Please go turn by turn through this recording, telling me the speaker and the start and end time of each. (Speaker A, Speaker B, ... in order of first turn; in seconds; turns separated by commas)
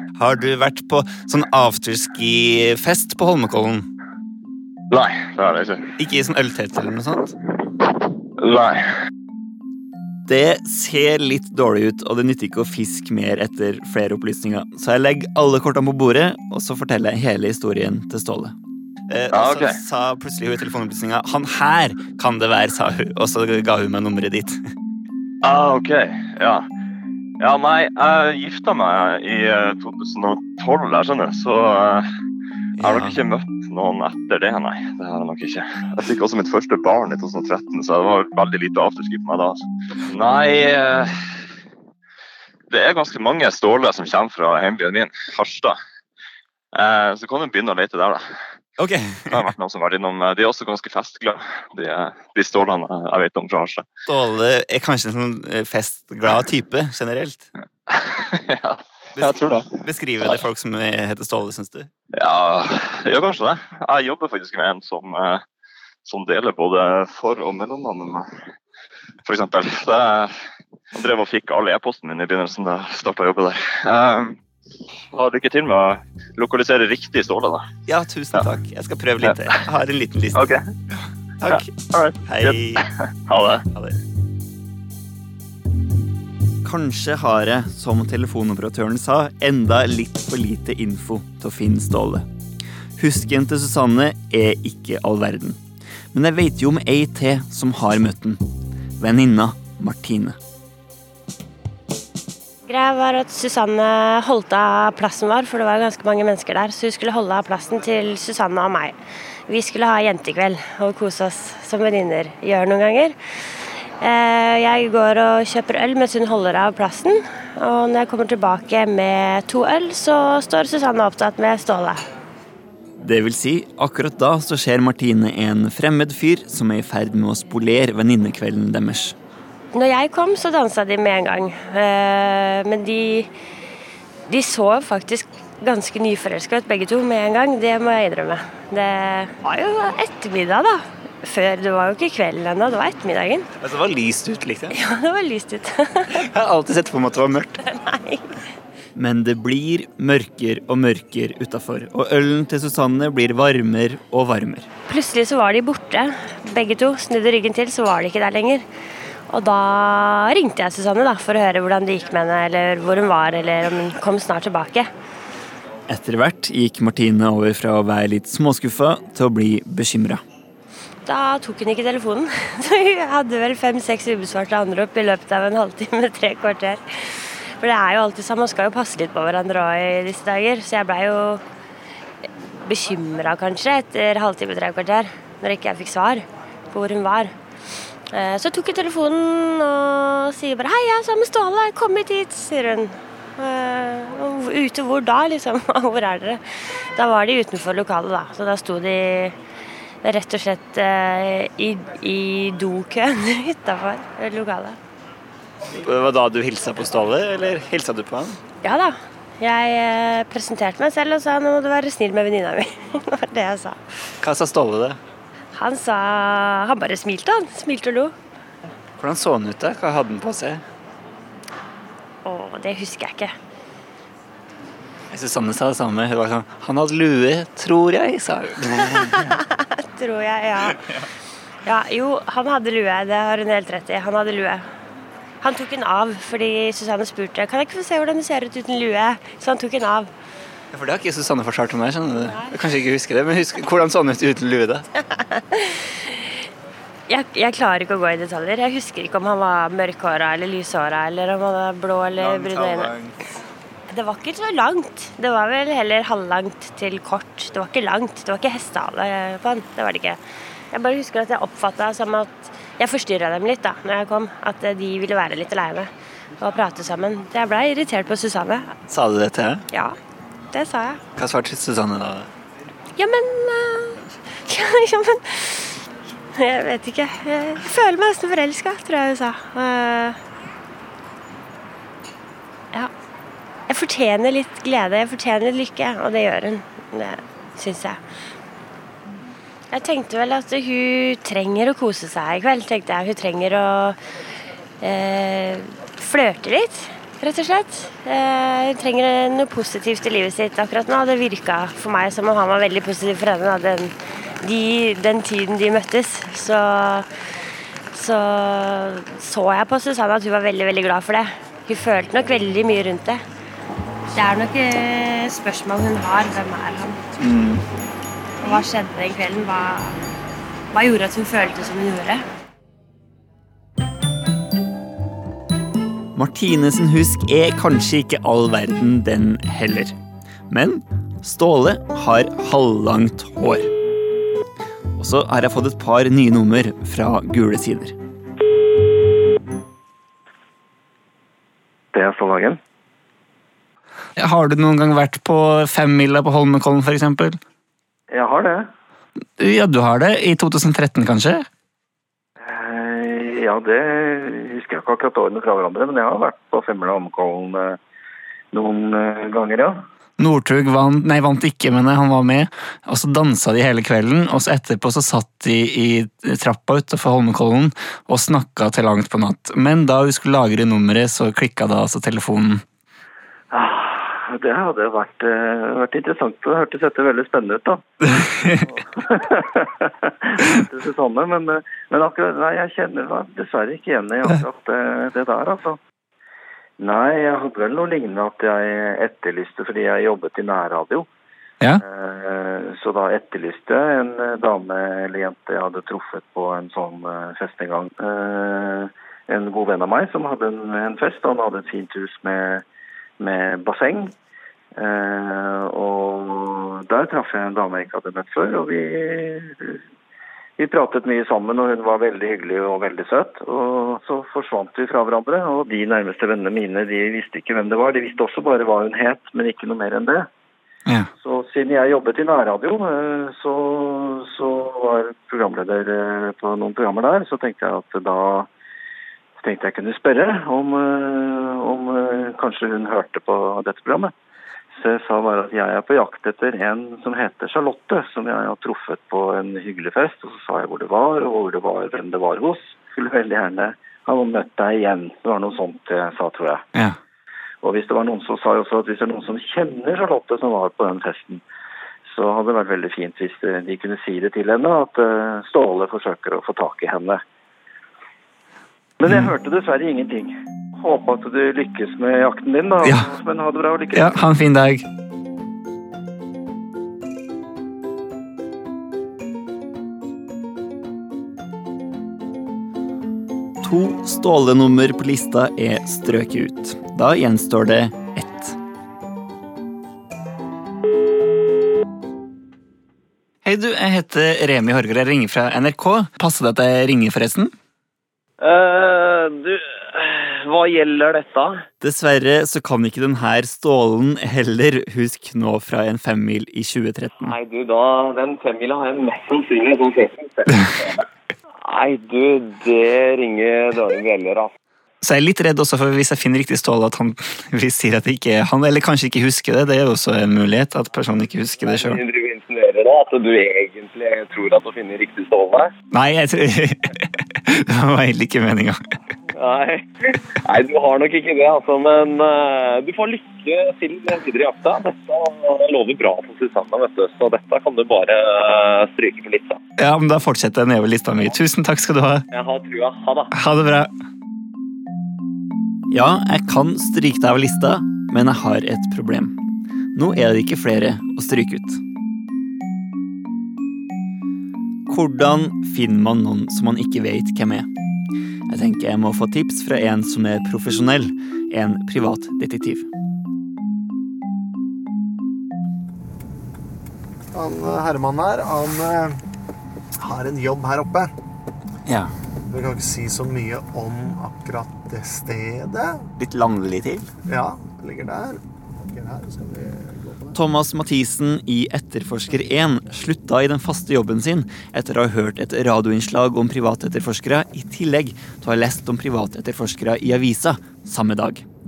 Speaker A: 0.1-3.9, Speaker B: 4.9-5.9, Speaker A: 6.0-7.3, Speaker B: 8.4-8.8, Speaker A: 10.3-18.6, Speaker A: 19.1-24.6, Speaker B: 19.3-19.8, Speaker B: 25.4-26.6, Speaker B: 27.4-32.1, Speaker A: 32.8-33.2, Speaker B: 32.8-41.1, Speaker B: 42.7-45.8, Speaker B: 46.7-48.4, Speaker A: 48.8-49.5, Speaker B: 49.3-53.9, Speaker A: 54.1-57.5, Speaker B: 57.9-59.7, Speaker A: 59.1-61.9, Speaker B: 62.1-65.4, Speaker B: 66.0-68.3, Speaker B: 69.2-70.3, Speaker B: 70.9-74.4, Speaker B: 75.1-77.7, Speaker A: 77.9-80.4, Speaker B: 79.2-79.6, Speaker B: 80.3-80.6, Speaker A: 81.4-81.7, Speaker B: 81.4-83.6, Speaker A: 82.2-82.8, Speaker A: 86.6-92.2, Speaker A: 93.0-95.6, Speaker A: 96.1-98.4, Speaker A: 99.0-100.4, Speaker C: 102.7-109.0, Speaker C: 109.5-122.0, Speaker A: 123.0-129.2, Speaker C: 129.7-133.3, Speaker C: 134.3-143.5, Speaker A: 143.6-144.8, Speaker C: 144.7-146.1, Speaker A: 146.1-147.6, Speaker C: 147.6-148.2, Speaker A: 148.9-154.7, Speaker C: 154.9-158.7, Speaker C: 159.3-164.9, Speaker A: 165.9-170.2, Speaker C: 171.1-181.4, Speaker C: 182.2-187.3, Speaker C: 188.1-199.4, Speaker C: 200.0-204.8, Speaker A: 205.7-208.4, Speaker C: 208.6-213.8, Speaker A: 214.2-215.0, Speaker C: 215.5-218.1, Speaker A: 219.0-220.6, Speaker C: 222.2-223.3, Speaker A: 225.1-229.4, Speaker C: 229.2-230.8, Speaker C: 231.6-234.7, Speaker C: 235.4-240.1, Speaker A: 240.7-244.8, Speaker C: 242.3-242.5, Speaker C: 245.0-246.3, Speaker C: 247.1-252.9, Speaker A: 252.2-253.2, Speaker C: 253.9-260.2, Speaker C: 260.7-268.7, Speaker A: 268.9-269.6, Speaker C: 270.5-271.0, Speaker A: 271.1-272.3, Speaker C: 272.9-275.8, Speaker C: 276.3-280.2, Speaker C: 283.7-288.0, Speaker C: 289.7-294.0, Speaker C: 294.8-307.1, Speaker C: 307.9-313.2, Speaker C: 314.1-317.1, Speaker A: 317.2-317.6, Speaker C: 318.4-320.0, Speaker C: 320.7-322.2, Speaker A: 326.1-329.9, Speaker A: 330.5-333.7, Speaker A: 335.0-337.9, Speaker D: 341.9-342.6, Speaker A: 344.2-347.4, Speaker D: 348.1-348.7, Speaker A: 349.4-351.5, Speaker D: 352.4-357.8, Speaker D: 358.5-359.8, Speaker A: 360.2-372.6, Speaker D: 373.5-377.9, Speaker A: 378.1-378.6, Speaker D: 378.6-385.8, Speaker D: 386.8-391.1, Speaker D: 391.8-402.6, Speaker D: 403.2-404.1, Speaker D: 404.8-409.8, Speaker D: 410.6-420.3, Speaker D: 421.2-428.5, Speaker D: 429.4-434.1, Speaker D: 434.8-446.6, Speaker D: 447.6-451.4, Speaker D: 452.1-457.2, Speaker D: 459.0-464.2, Speaker A: 462.8-463.1, Speaker A: 463.9-464.9, Speaker A: 473.6-478.6, Speaker A: 483.4-487.5, Speaker E: 488.4-491.6, Speaker A: 491.8-497.3, Speaker E: 497.2-501.0, Speaker E: 501.6-504.5, Speaker A: 505.0-512.0, Speaker E: 511.6-515.7, Speaker A: 515.9-518.8, Speaker E: 519.3-529.6, Speaker A: 529.8-532.2, Speaker E: 532.3-533.3, Speaker A: 533.3-533.9, Speaker A: 535.9-539.4, Speaker A: 539.9-541.8, Speaker A: 544.9-547.7, Speaker A: 548.5-552.9, Speaker F: 557.3-559.2, Speaker F: 559.9-561.1, Speaker A: 561.9-562.1, Speaker F: 562.5-566.1, Speaker A: 566.2-567.1, Speaker F: 567.3-570.4, Speaker A: 570.3-581.4